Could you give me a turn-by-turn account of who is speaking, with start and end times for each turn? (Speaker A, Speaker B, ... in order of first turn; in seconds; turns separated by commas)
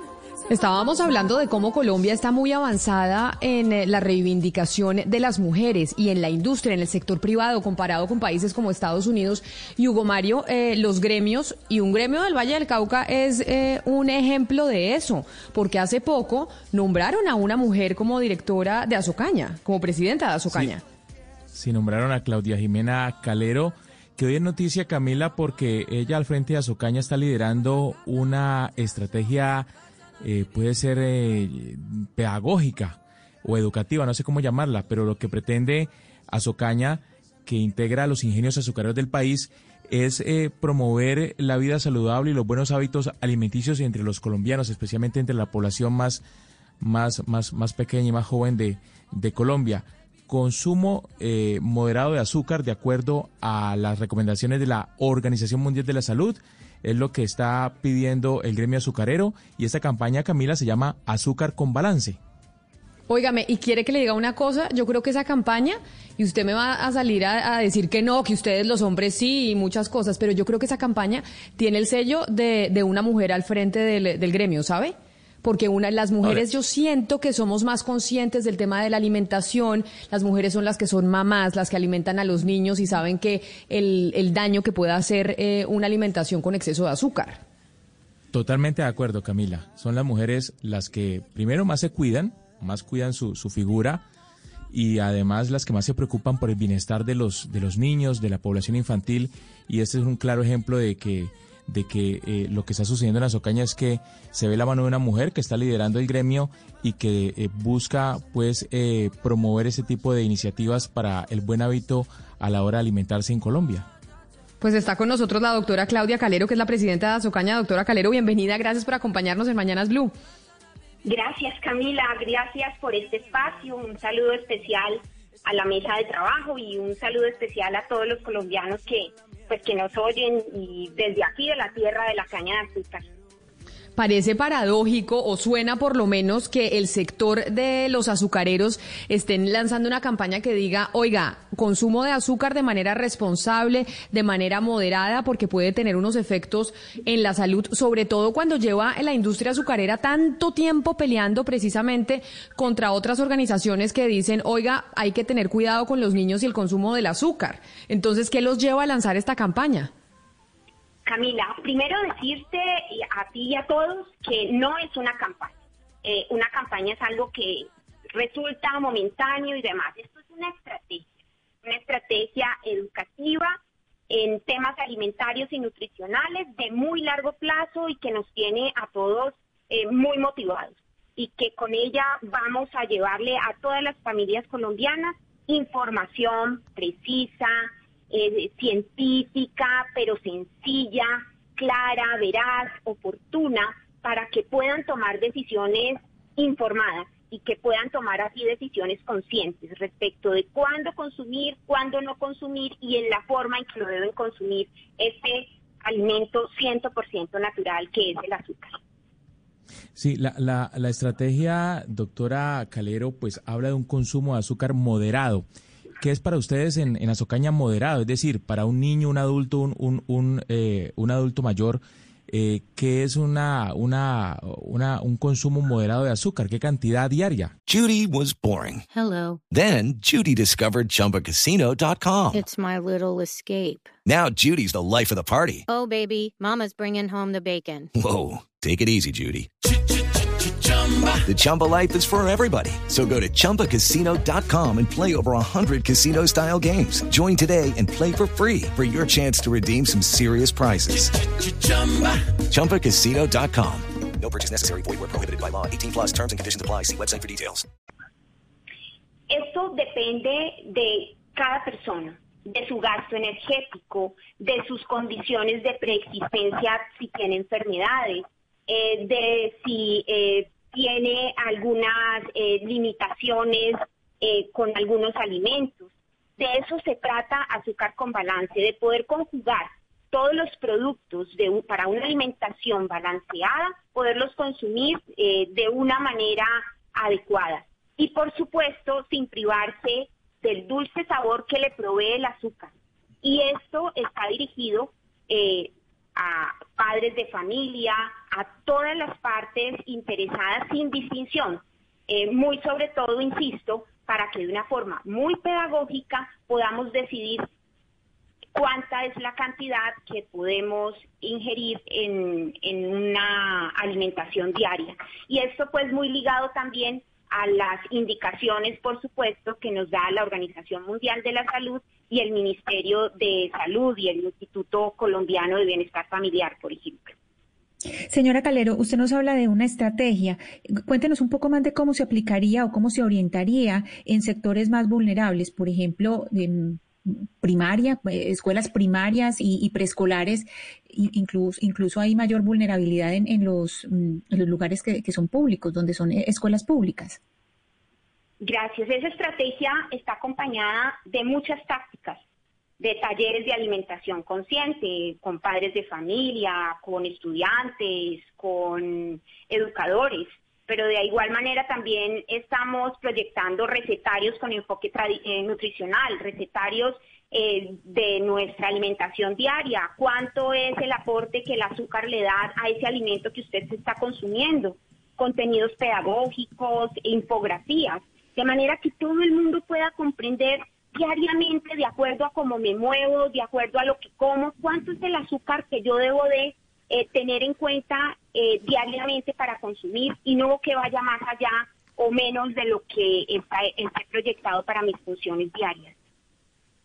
Speaker A: 0.5-20.8, Speaker B: 21.5-29.7, Speaker B: 30.2-46.2, Speaker B: 46.8-62.2, Speaker A: 63.1-87.4, Speaker B: 88.3-94.0, Speaker B: 94.7-113.9, Speaker A: 114.6-120.1, Speaker C: 121.0-133.0, Speaker A: 133.9-159.9, Speaker C: 161.1-171.0, Speaker C: 171.6-173.6, Speaker C: 174.1-208.8, Speaker B: 209.9-215.4, Speaker B: 216.0-227.5, Speaker D: 227.7-228.8, Speaker E: 228.9-229.4, Speaker D: 229.5-232.4, Speaker E: 232.3-233.9, Speaker D: 234.1-235.6, Speaker E: 235.7-237.9, Speaker D: 238.0-239.5, Speaker D: 241.2-251.1, Speaker D: 252.5-253.8, Speaker F: 254.1-257.6, Speaker C: 259.3-292.7, Speaker C: 293.2-307.4, Speaker C: 308.5-327.1, Speaker G: 328.1-347.2, Speaker C: 348.4-352.2, Speaker C: 352.8-395.9